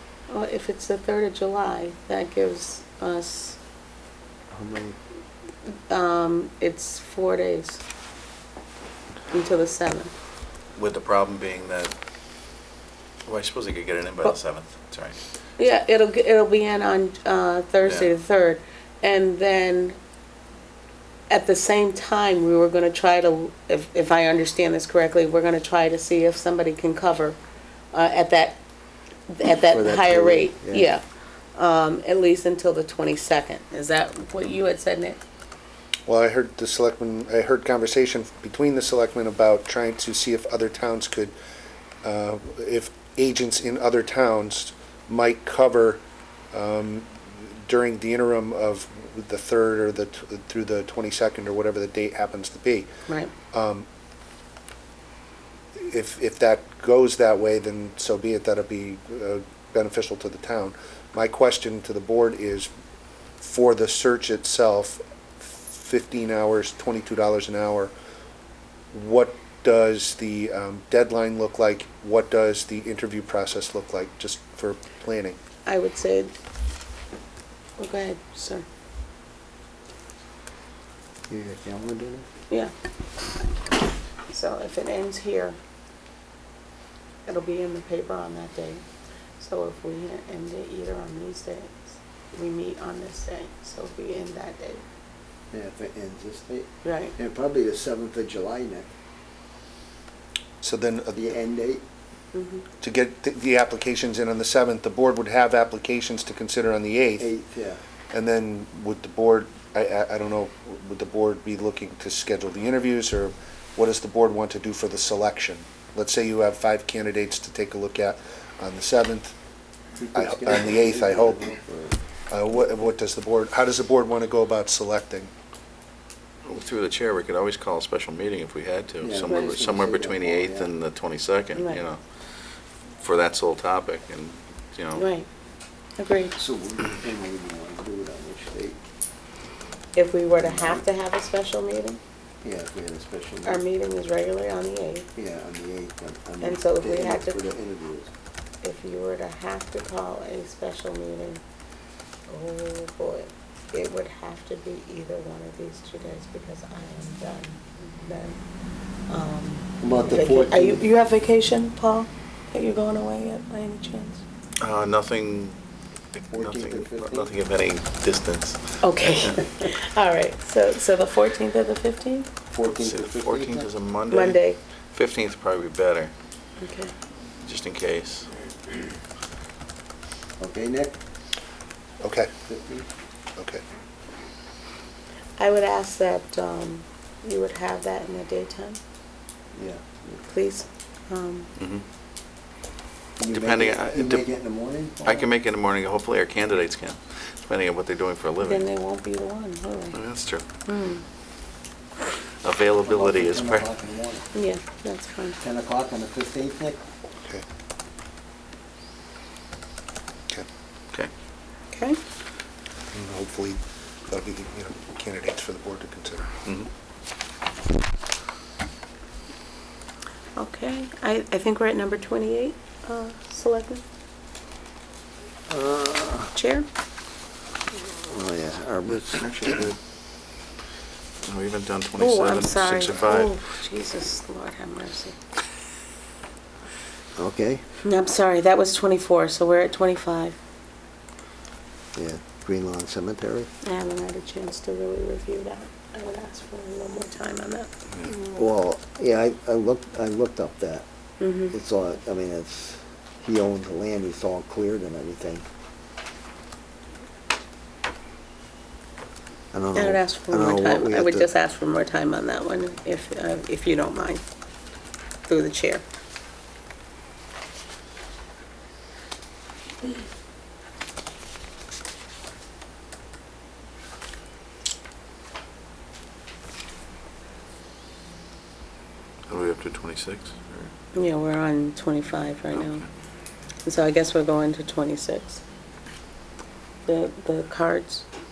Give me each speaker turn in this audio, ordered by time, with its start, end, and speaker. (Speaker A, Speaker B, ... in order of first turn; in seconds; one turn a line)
Speaker A: 0.3-3.6
Speaker B: 4.5-5.0
Speaker A: 5.7-7.8
Speaker A: 9.3-10.1
Speaker C: 10.8-11.9
Speaker C: 13.3-15.2
Speaker A: 15.6-20.0
Speaker C: 17.8-18.1
Speaker A: 21.3-27.4
Speaker A: 27.9-28.6
Speaker A: 29.3-31.0
Speaker B: 29.5-30.9
Speaker A: 31.5-35.2
Speaker D: 36.1-41.3
Speaker D: 42.0-52.9
Speaker D: 53.5-53.9
Speaker D: 55.8-62.7
Speaker D: 63.4-67.9
Speaker D: 68.9-75.4
Speaker A: 75.7-76.3
Speaker A: 77.8-78.7
Speaker B: 81.3-82.3
Speaker A: 84.3-85.6
Speaker A: 87.2-88.8
Speaker A: 89.4-94.8
Speaker B: 95.5-98.9
Speaker A: 96.8-97.1
Speaker D: 100.6-101.3
Speaker B: 101.2-101.8
Speaker A: 102.3-102.7
Speaker D: 102.8-107.3
Speaker B: 107.2-107.8
Speaker D: 108.1-119.3
Speaker B: 120.0-122.0
Speaker D: 120.1-121.5
Speaker D: 122.3-125.3
Speaker C: 126.5-132.0
Speaker B: 129.0-130.7
Speaker A: 129.3-129.6
Speaker A: 131.5-131.8
Speaker C: 133.0-135.1
Speaker A: 134.9-135.3
Speaker A: 136.0-136.3
Speaker B: 136.4-138.8
Speaker A: 140.0-142.0
Speaker B: 140.3-140.8
Speaker B: 142.4-143.6
Speaker A: 143.4-145.1
Speaker B: 145.2-148.1
Speaker A: 146.4-147.4
Speaker A: 148.6-151.4
Speaker A: 152.3-158.4
Speaker A: 159.1-164.2
Speaker B: 159.8-160.8
Speaker C: 164.6-165.6
Speaker C: 166.2-169.3
Speaker B: 166.3-167.3
Speaker A: 168.8-172.3
Speaker B: 172.5-173.7
Speaker C: 172.6-174.4
Speaker A: 174.1-174.6
Speaker C: 174.9-176.1
Speaker A: 176.6-176.9
Speaker C: 177.4-178.3
Speaker B: 180.4-181.0
Speaker D: 182.0-182.3
Speaker B: 182.5-182.9
Speaker D: 183.4-183.6
Speaker A: 185.4-188.8
Speaker B: 189.5-190.2
Speaker A: 190.3-191.5
Speaker C: 191.6-191.8
Speaker B: 193.2-195.3
Speaker C: 193.3-194.2
Speaker C: 195.0-198.7
Speaker A: 198.4-200.0
Speaker C: 199.9-200.5
Speaker A: 200.7-201.0
Speaker C: 202.4-203.7
Speaker B: 202.8-204.3
Speaker A: 204.3-205.4
Speaker B: 205.4-206.8
Speaker A: 211.7-212.0
Speaker D: 212.9-216.3
Speaker A: 220.3-223.8
Speaker B: 225.5-226.3
Speaker A: 226.3-226.7
Speaker B: 227.7-229.8
Speaker C: 231.2-233.4
Speaker A: 232.0-235.2
Speaker B: 237.2-237.6
Speaker A: 237.8-240.4
Speaker B: 241.9-243.5
Speaker A: 243.6-247.7
Speaker B: 248.1-250.8
Speaker A: 251.2-251.5
Speaker B: 251.5-255.4
Speaker B: 259.5-261.3
Speaker A: 259.8-264.2
Speaker A: 265.3-265.9
Speaker C: 279.3-280.7
Speaker A: 280.9-282.8
Speaker C: 282.6-282.8
Speaker A: 283.6-285.4
Speaker A: 286.9-288.0